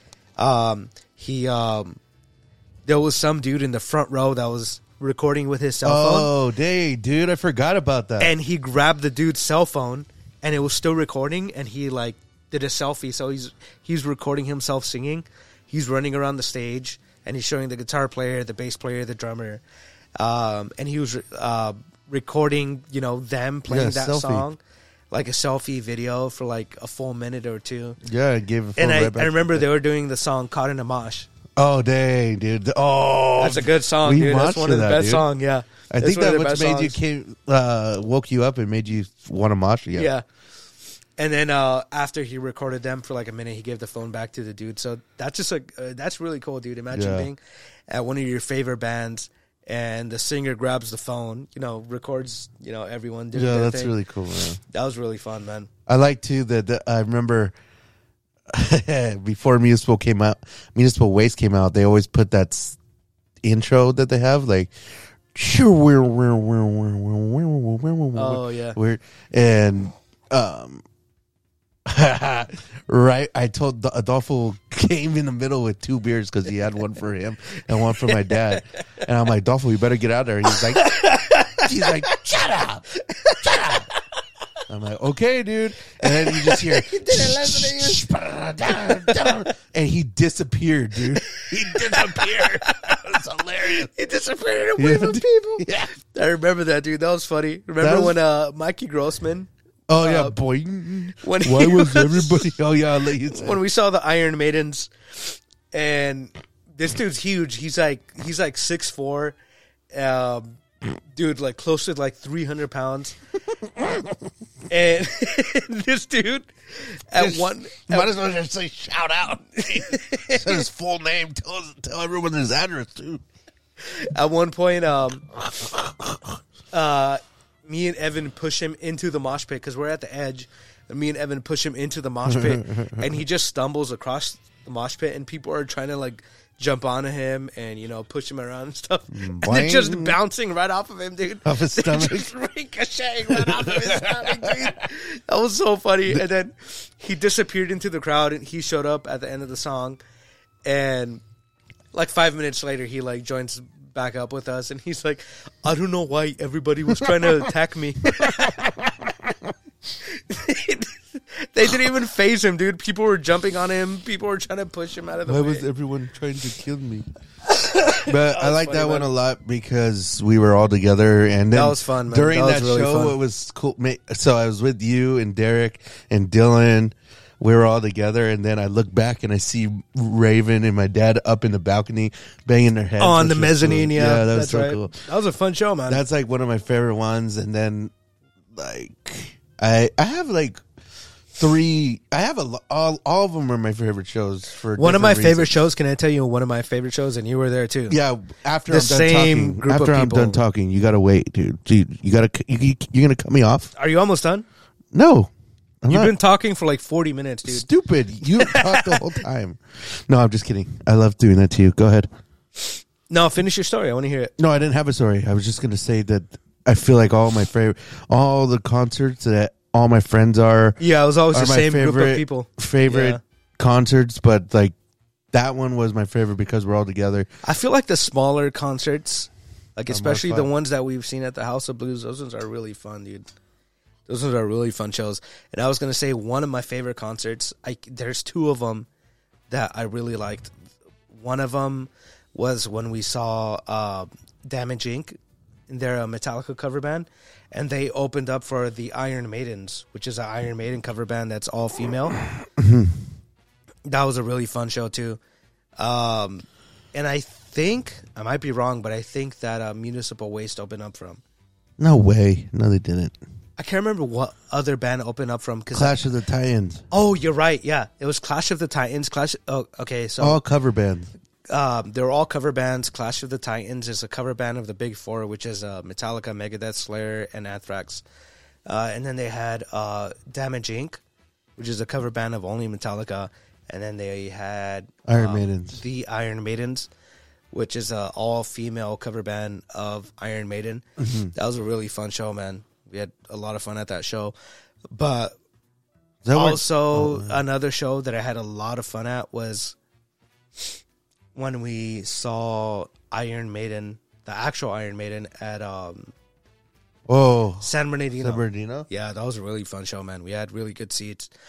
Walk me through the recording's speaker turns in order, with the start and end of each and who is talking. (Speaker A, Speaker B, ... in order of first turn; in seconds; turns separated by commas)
Speaker A: 0.4-2.0, Speaker A: 2.9-6.3, Speaker B: 5.8-8.3, Speaker A: 8.2-19.6, Speaker A: 20.2-24.6, Speaker B: 23.7-24.5, Speaker A: 25.1-28.0, Speaker B: 28.0-29.6, Speaker A: 28.8-31.3, Speaker B: 31.6-35.2, Speaker A: 33.4-37.0, Speaker B: 35.9-40.1, Speaker A: 39.9-40.2, Speaker A: 41.2-53.9, Speaker B: 46.9-47.3, Speaker B: 53.3-54.6, Speaker A: 54.7-55.7, Speaker B: 55.9-57.5, Speaker B: 58.5-62.8, Speaker B: 63.4-64.7, Speaker B: 65.3-70.8, Speaker A: 68.1-68.8, Speaker B: 71.8-80.9, Speaker A: 78.1-78.6, Speaker A: 80.8-81.7, Speaker B: 81.6-82.8, Speaker A: 83.1-84.0, Speaker B: 83.4-83.8, Speaker B: 84.7-93.9, Speaker A: 86.0-88.0, Speaker A: 88.7-89.4, Speaker A: 91.3-93.0, Speaker A: 93.9-100.3, Speaker B: 94.8-95.9, Speaker B: 97.8-98.2, Speaker B: 99.9-103.6, Speaker A: 101.2-102.5, Speaker A: 103.3-109.3, Speaker A: 109.9-110.6, Speaker A: 111.1-113.2, Speaker A: 114.7-118.1, Speaker B: 117.2-123.2, Speaker A: 119.6-120.6, Speaker A: 123.8-125.2, Speaker B: 125.4-126.4, Speaker A: 126.7-150.0, Speaker B: 132.2-133.1, Speaker B: 139.1-140.2, Speaker B: 141.4-142.3, Speaker B: 143.3-144.8, Speaker A: 150.6-151.2, Speaker A: 151.9-158.6, Speaker B: 157.1-157.3, Speaker B: 158.2-159.1, Speaker A: 160.1-165.7, Speaker B: 165.2-167.1, Speaker A: 167.5-169.1, Speaker B: 168.0-185.0, Speaker A: 171.5-173.2, Speaker A: 183.0-186.0, Speaker B: 185.9-187.9, Speaker B: 188.5-190.6, Speaker B: 191.3-195.7, Speaker A: 194.8-197.9, Speaker B: 197.9-203.7, Speaker A: 198.7-200.4, Speaker A: 203.8-204.4, Speaker B: 204.9-205.3, Speaker B: 205.8-206.1, Speaker A: 205.9-207.7, Speaker B: 207.4-212.1, Speaker A: 208.3-209.1, Speaker A: 213.1-214.3, Speaker B: 214.4-220.8, Speaker A: 220.8-223.2, Speaker B: 221.3-224.7, Speaker B: 225.3-227.3, Speaker A: 227.4-233.2, Speaker B: 229.9-230.5, Speaker A: 234.1-238.9, Speaker A: 239.5-240.5, Speaker A: 241.1-245.2, Speaker A: 245.7-252.1, Speaker B: 252.6-253.0, Speaker A: 253.8-255.2, Speaker A: 255.8-261.2, Speaker B: 261.8-263.2, Speaker A: 263.6-266.0, Speaker B: 265.7-266.8, Speaker A: 266.9-270.4, Speaker B: 270.2-271.1, Speaker A: 271.5-278.0, Speaker A: 278.6-281.0, Speaker A: 281.6-286.9, Speaker B: 285.1-285.8, Speaker A: 287.5-294.3, Speaker B: 291.0-291.3, Speaker A: 294.9-295.3, Speaker B: 296.2-297.4, Speaker A: 296.3-299.8, Speaker A: 301.3-306.1, Speaker B: 307.1-308.9, Speaker A: 307.6-311.3